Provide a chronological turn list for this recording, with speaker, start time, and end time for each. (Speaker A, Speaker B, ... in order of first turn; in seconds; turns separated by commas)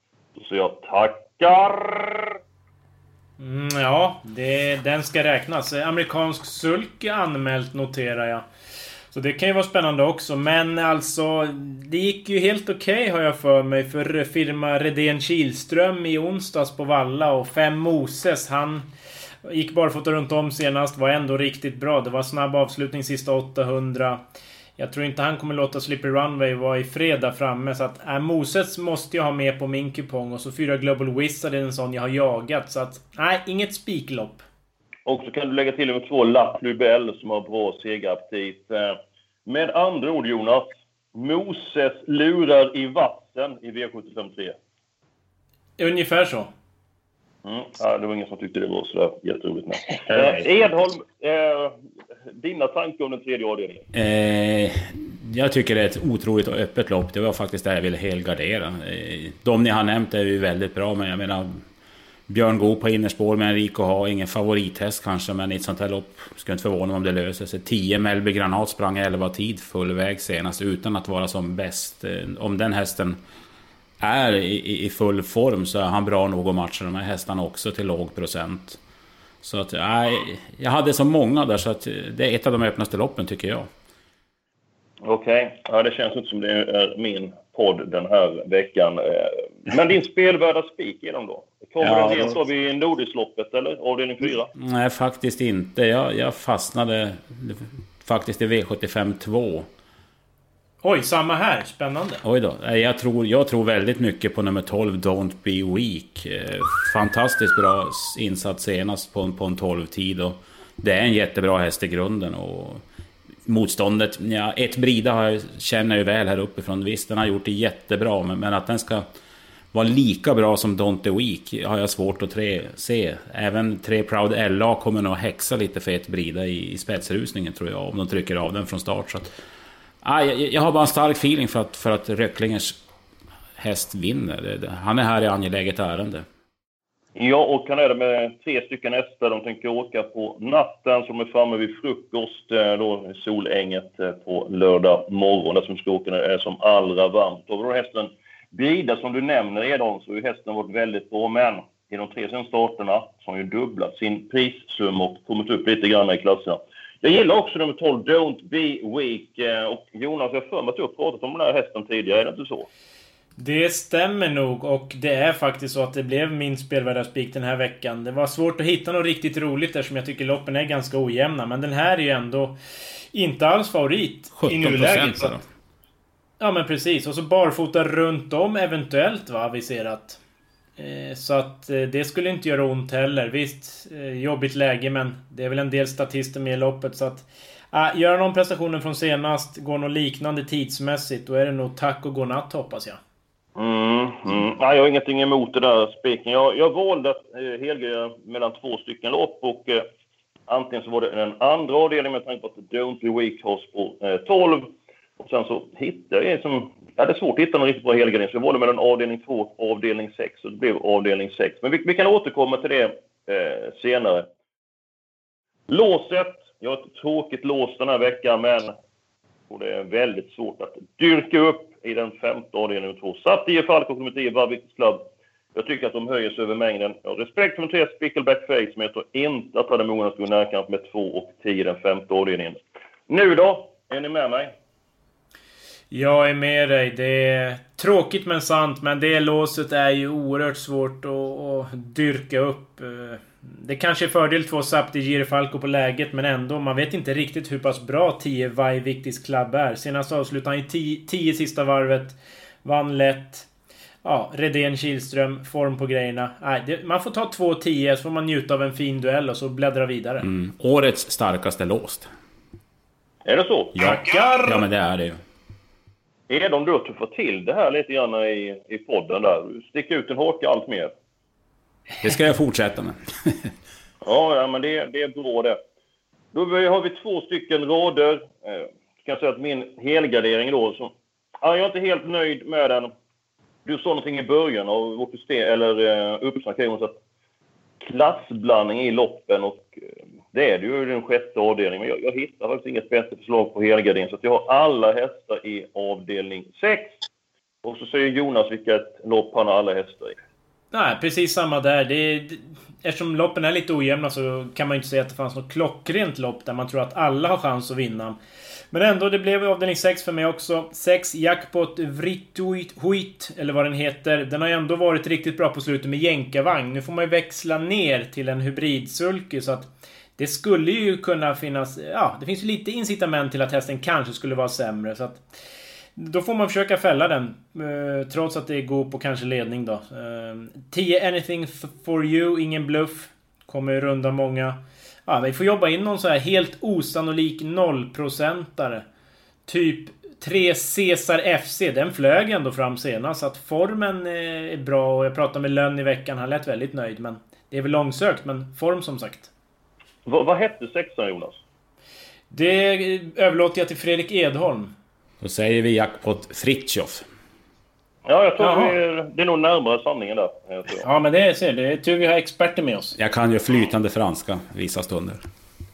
Speaker A: 0.3-2.4, Speaker B: 3.4-8.4, Speaker B: 9.1-18.9, Speaker B: 19.4-24.2, Speaker B: 24.8-34.4, Speaker A: 35.0-44.5, Speaker B: 45.8-46.5, Speaker A: 47.4-51.8, Speaker A: 52.3-53.8, Speaker C: 53.9-61.6, Speaker C: 62.3-73.2, Speaker C: 74.0-78.8, Speaker C: 79.4-83.7, Speaker A: 85.0-94.5, Speaker C: 91.8-92.4, Speaker C: 94.5-99.7, Speaker B: 100.8-102.2, Speaker C: 102.2-112.8, Speaker C: 113.5-119.0, Speaker C: 119.7-129.3, Speaker C: 130.0-132.8, Speaker C: 133.6-136.2, Speaker A: 137.1-162.7, Speaker B: 163.4-172.6, Speaker B: 173.1-175.4, Speaker C: 174.3-175.4, Speaker B: 176.4-180.2, Speaker B: 180.8-193.0, Speaker A: 193.6-199.8, Speaker A: 200.5-214.3, Speaker A: 215.7-218.7, Speaker A: 219.5-232.6, Speaker A: 233.1-234.5, Speaker B: 235.9-253.5, Speaker B: 254.0-260.2, Speaker C: 260.2-262.1, Speaker A: 263.2-263.8, Speaker C: 263.8-265.2, Speaker B: 263.8-264.6, Speaker A: 266.3-270.9, Speaker C: 272.0-273.5, Speaker A: 274.0-275.6, Speaker A: 276.3-282.9, Speaker A: 283.6-287.0, Speaker A: 287.8-289.7, Speaker A: 290.3-297.0, Speaker A: 297.6-300.2, Speaker B: 300.7-308.2, Speaker B: 308.7-325.2, Speaker B: 325.9-338.8, Speaker B: 339.5-349.3, Speaker A: 350.1-351.4, Speaker B: 352.3-354.7, Speaker C: 355.2-357.1, Speaker A: 358.1-360.8, Speaker B: 358.4-358.7, Speaker B: 360.8-362.9, Speaker C: 362.9-365.2